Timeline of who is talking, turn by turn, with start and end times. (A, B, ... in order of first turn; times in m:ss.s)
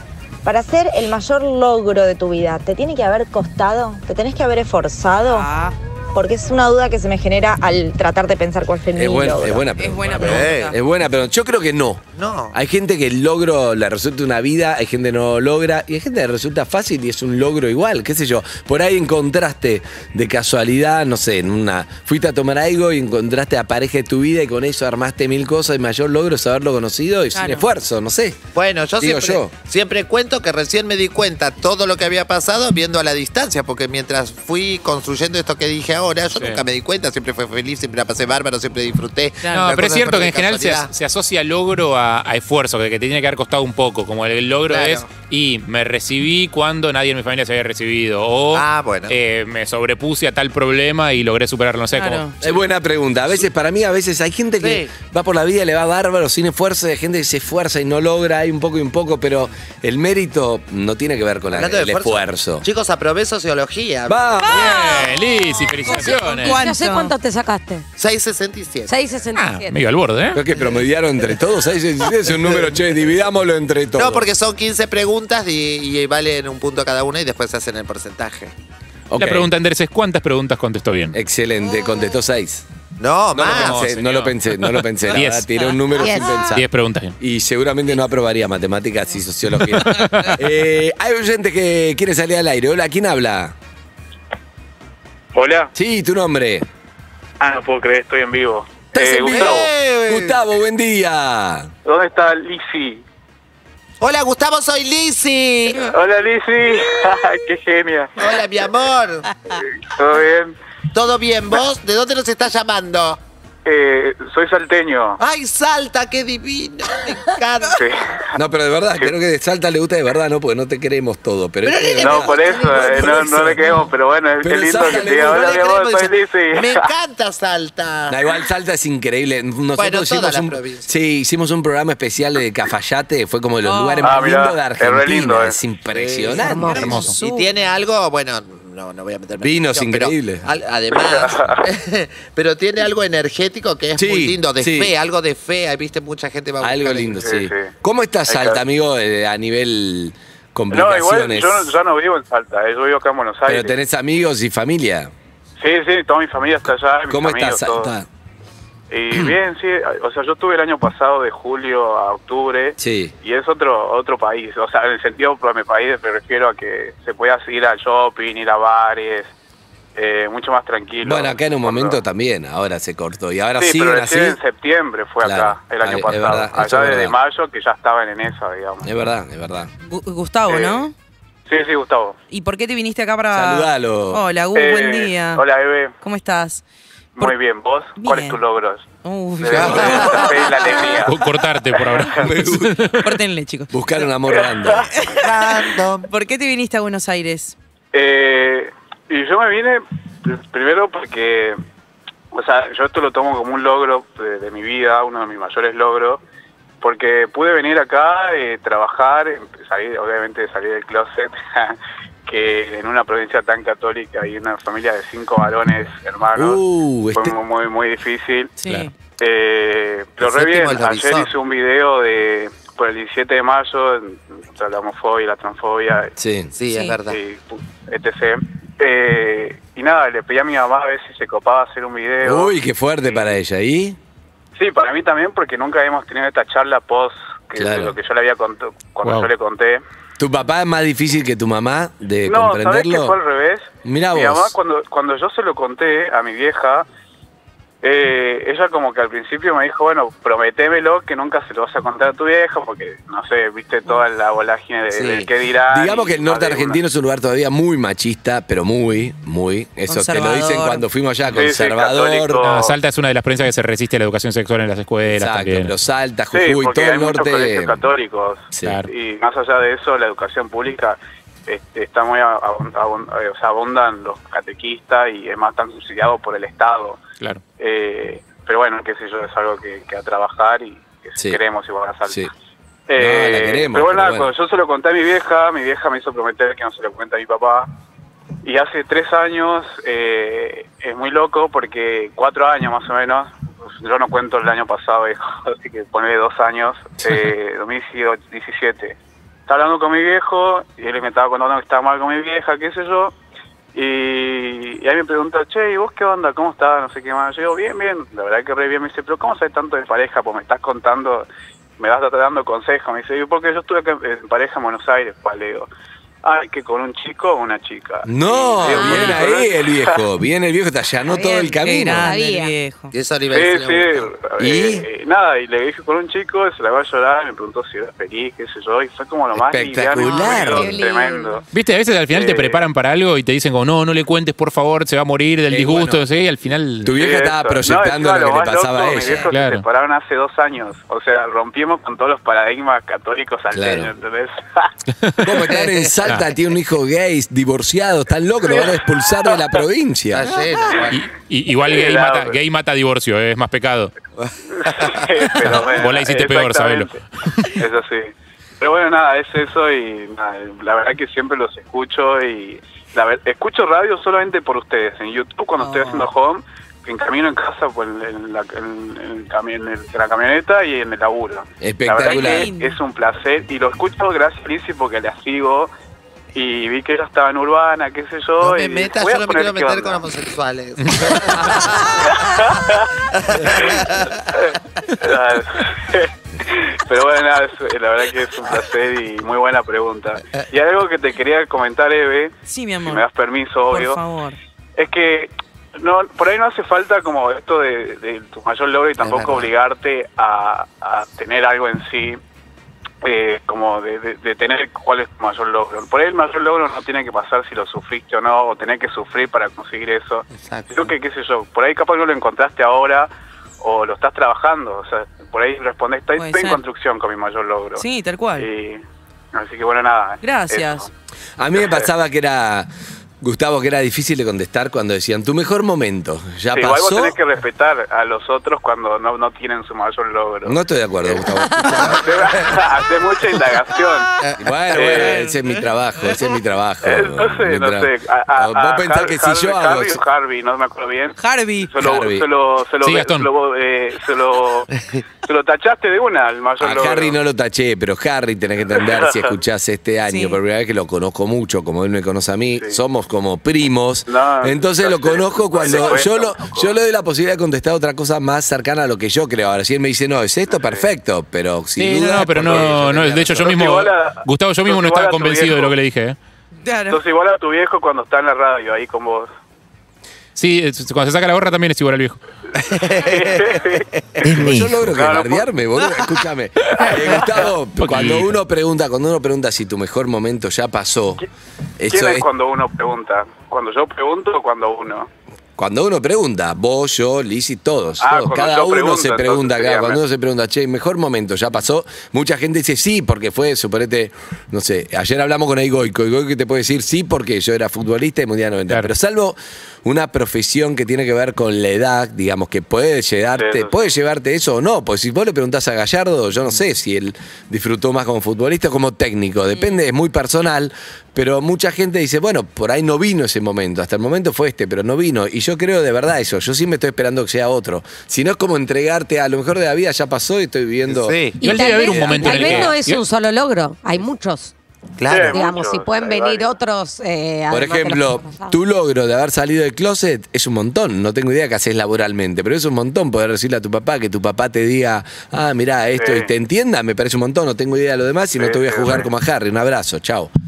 0:00.4-0:05.5 A
0:05.2-0:05.7 B
0:06.1-0:09.7 A
0:08.9-0:28.4 C
0:09.8-0:10.8 B
0:10.2-0:10.7 D
0:12.1-0:12.5 D
0:27.3-0:27.7 B
0:28.5-0:40.9 D
0:29.0-0:29.5 C
0:36.3-0:36.6 E
0:39.4-0:39.7 B
0:39.5-0:52.3 E
0:44.6-0:45.1 D
0:48.5-0:49.2 D
0:51.9-0:52.3 B
0:52.4-1:02.6 C
0:54.6-0:54.9 D
1:01.5-1:04.6 D
1:04.1-1:04.8 C
1:04.4-1:05.1 B
1:04.5-1:06.6 E
1:05.7-1:07.1 B
1:06.0-1:07.8 F
1:08.0-1:09.0 D
1:08.8-1:09.8 F
1:09.3-1:10.4 E
1:10.3-1:14.2 C
1:12.4-1:12.7 D
1:14.0-1:18.5 D
1:19.1-1:19.5 C
1:19.2-1:21.1 E
1:21.1-1:22.6 C
1:23.0-1:23.9 D
1:23.3-1:26.7 C
1:23.5-1:24.4 E
1:25.1-1:25.5 E
1:25.9-1:26.4 F
1:26.5-1:27.1 E
1:27.2-1:33.5 C
1:29.9-1:30.3 E
1:35.3-1:35.7 G
1:35.7-1:36.6 C
1:37.4-1:39.7 G
1:38.9-1:40.4 D
1:39.1-1:41.7 C
1:41.8-1:43.0 G
1:44.0-1:45.9 D
1:45.9-1:48.1 G
1:48.2-1:49.3 D
1:49.8-1:50.5 G
1:50.9-1:53.2 D
1:53.6-1:55.2 G
1:55.2-1:57.8 D
1:57.7-1:58.0 G
1:58.3-2:03.7 C
2:01.6-2:03.5 D
2:02.0-2:06.9 G
2:04.4-2:05.7 C
2:04.8-2:08.4 D
2:08.1-2:16.9 C
2:09.8-2:10.8 D
2:13.6-2:14.2 B
2:14.0-2:15.6 G
2:15.9-2:27.3 D
2:16.3-2:17.3 F
2:16.8-2:17.2 E
2:17.0-2:17.5 B
2:19.4-2:20.4 C
2:20.9-2:21.6 G
2:24.0-2:24.9 C
2:26.6-2:31.7 C
2:27.2-2:27.7 G
2:28.3-2:28.6 G
2:30.7-2:33.7 G
2:33.4-2:35.1 C
2:35.6-2:37.9 G
2:37.1-2:38.1 C
2:38.9-2:49.3 G
2:42.8-2:43.1 C
2:50.0-2:52.0 G
2:51.0-2:54.4 C
2:53.6-2:58.9 G
2:55.2-2:57.1 C
2:58.8-2:59.7 C
2:59.8-3:00.9 B
3:00.5-3:00.9 G
3:01.5-3:02.2 G
3:02.3-3:05.4 B
3:03.3-3:04.2 C
3:04.5-3:05.9 G
3:06.0-3:06.6 B
3:07.2-3:08.8 G
3:08.0-3:08.4 B
3:09.0-3:10.9 B
3:09.4-3:12.2 G
3:09.5-3:10.2 C
3:09.5-3:10.5 D
3:11.0-3:13.1 E
3:12.1-3:12.9 C
3:13.0-3:13.7 B
3:13.7-3:14.9 C
3:14.3-3:14.8 G
3:14.8-3:17.5 B
3:15.2-3:16.1 D
3:17.9-3:21.6 G
3:22.3-3:26.2 G
3:26.8-3:36.6 G
3:36.3-3:37.3 C
3:37.1-3:38.5 G
3:38.6-3:38.9 B
3:39.2-3:46.1 G
3:40.2-3:41.3 D
3:46.2-3:46.5 C
3:46.5-3:47.2 D
3:46.7-3:47.0 B
3:47.0-3:53.4 G
3:52.2-3:54.0 C
3:54.6-3:59.8 G
3:57.6-3:58.0 C
3:59.0-3:59.3 E
4:00.2-4:03.2 C
4:02.2-4:06.8 G
4:03.8-4:04.5 C
4:07.8-4:16.8 G
4:14.9-4:15.3 D
4:15.7-4:22.4 C
4:19.9-4:20.8 B
4:21.3-4:22.8 G
4:22.4-4:25.7 E
4:25.1-4:27.8 C
4:26.3-4:37.0 G
4:28.5-4:28.8 C
4:28.6-4:28.9 E
4:37.6-4:42.3 G
4:42.9-4:47.7 G
4:43.0-4:44.3 C
4:48.4-4:58.9 G
4:59.5-5:03.1 G
5:03.7-5:11.2 G
5:11.8-5:15.7 G
5:16.2-5:19.8 G
5:18.0-5:22.1 C
5:18.6-5:19.4 F
5:21.0-5:22.6 F
5:21.5-5:22.9 B
5:22.9-5:24.1 D
5:23.3-5:31.4 G
5:24.4-5:24.9 C
5:29.3-5:30.7 C
5:30.0-5:31.4 F
5:31.5-5:36.9 E
5:32.1-5:32.6 G
5:35.5-5:36.0 C
5:36.8-5:39.3 C
5:37.0-5:44.7 G
5:39.3-5:39.6 E
5:43.5-5:43.9 C
5:45.0-5:45.3 E
5:45.2-5:50.3 C
5:48.5-5:48.7 G
5:50.1-5:51.0 D
5:50.9-5:53.9 E
5:51.6-5:52.4 G
5:54.2-5:55.0 D
5:54.5-5:57.0 G
5:55.4-5:57.4 E
5:57.6-6:15.7 G
6:05.6-6:06.1 B
6:11.6-6:12.5 C
6:12.0-6:12.8 B
6:16.3-6:20.0 G
6:18.4-6:22.4 D
6:22.1-6:22.9 G
6:23.1-6:24.2 D
6:24.3-6:34.0 G
6:32.4-6:33.0 B
6:33.7-6:34.4 B
6:34.8-6:42.2 G
6:39.0-6:39.5 D
6:43.0-6:53.1 G
6:50.3-6:50.9 D
6:53.6-6:57.8 G
6:56.2-6:56.6 B
6:57.8-6:58.5 B
6:58.4-6:58.8 G
6:59.3-7:00.9 G
7:00.2-7:00.9 B
7:01.4-7:02.7 C
7:01.6-7:01.9 G
7:03.2-7:07.2 C
7:06.5-7:11.2 G
7:10.4-7:12.5 C
7:12.0-7:14.1 G
7:14.4-7:20.0 C
7:14.7-7:15.2 G
7:14.9-7:15.3 B
7:16.8-7:24.7 G
7:21.2-7:21.7 B
7:21.8-7:22.3 C
7:22.8-7:23.3 E
7:25.2-7:27.2 G
7:26.6-7:43.5 C
7:28.8-7:29.1 G
7:30.0-7:30.4 B
7:32.5-7:32.8 G
7:34.0-7:36.7 G
7:40.5-7:40.9 G
7:41.8-7:46.2 E
7:43.4-7:45.8 G
7:46.6-7:47.0 B
7:46.9-7:49.3 G
7:50.4-7:52.2 E
7:52.6-7:54.2 D
7:53.0-7:55.5 G
7:54.2-8:01.2 C
7:57.8-7:58.3 E
8:01.8-8:02.3 C
8:01.9-8:05.1 G
8:05.6-8:42.7 C
8:08.0-8:10.0 G
8:23.3-8:23.9 G
8:29.5-8:29.8 B
8:40.9-8:41.4 D
8:41.4-8:44.5 F
8:41.4-8:43.0 E
8:45.0-8:45.4 D
8:45.1-8:46.6 G
8:45.1-8:48.6 F
8:47.5-9:00.3 C
8:56.0-8:56.3 G
8:58.4-8:59.1 G